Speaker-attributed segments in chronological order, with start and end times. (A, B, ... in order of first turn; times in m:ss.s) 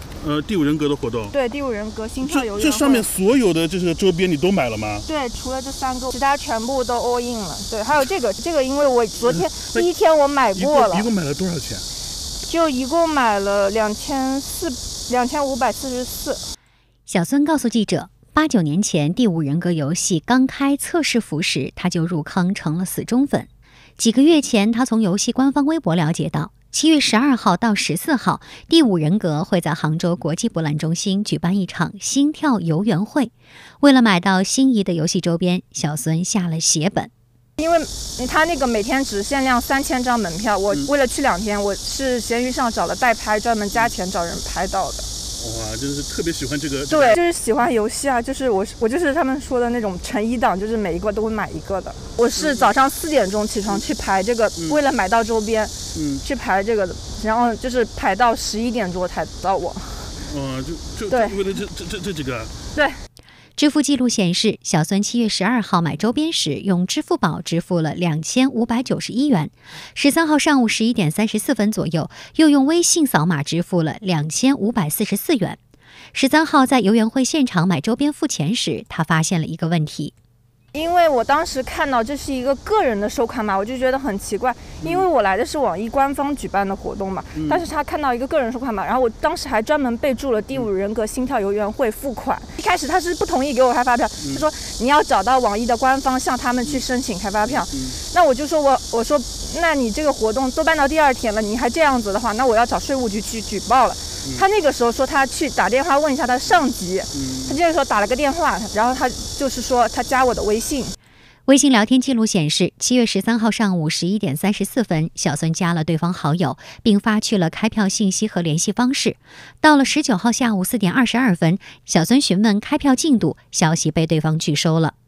0:00.2-0:01.3 A
0:01.3-0:03.1 B
0:02.2-0:05.1 A
0:05.0-0:11.1 B
0:09.3-0:09.9 A
0:10.6-0:11.9 A
0:12.4-0:16.4 B
0:17.1-0:37.1 C
0:37.6-0:45.1 B
0:45.4-0:47.2 A
0:46.9-1:00.1 B
0:56.0-0:56.2 A
1:00.3-1:02.5 A
1:01.1-1:01.4 B
1:03.6-1:15.6 C
1:16.1-1:20.1 C
1:20.7-1:51.0 B
1:27.4-1:27.6 A
1:37.5-1:37.9 A
1:47.2-1:47.6 A
1:51.5-2:04.9 C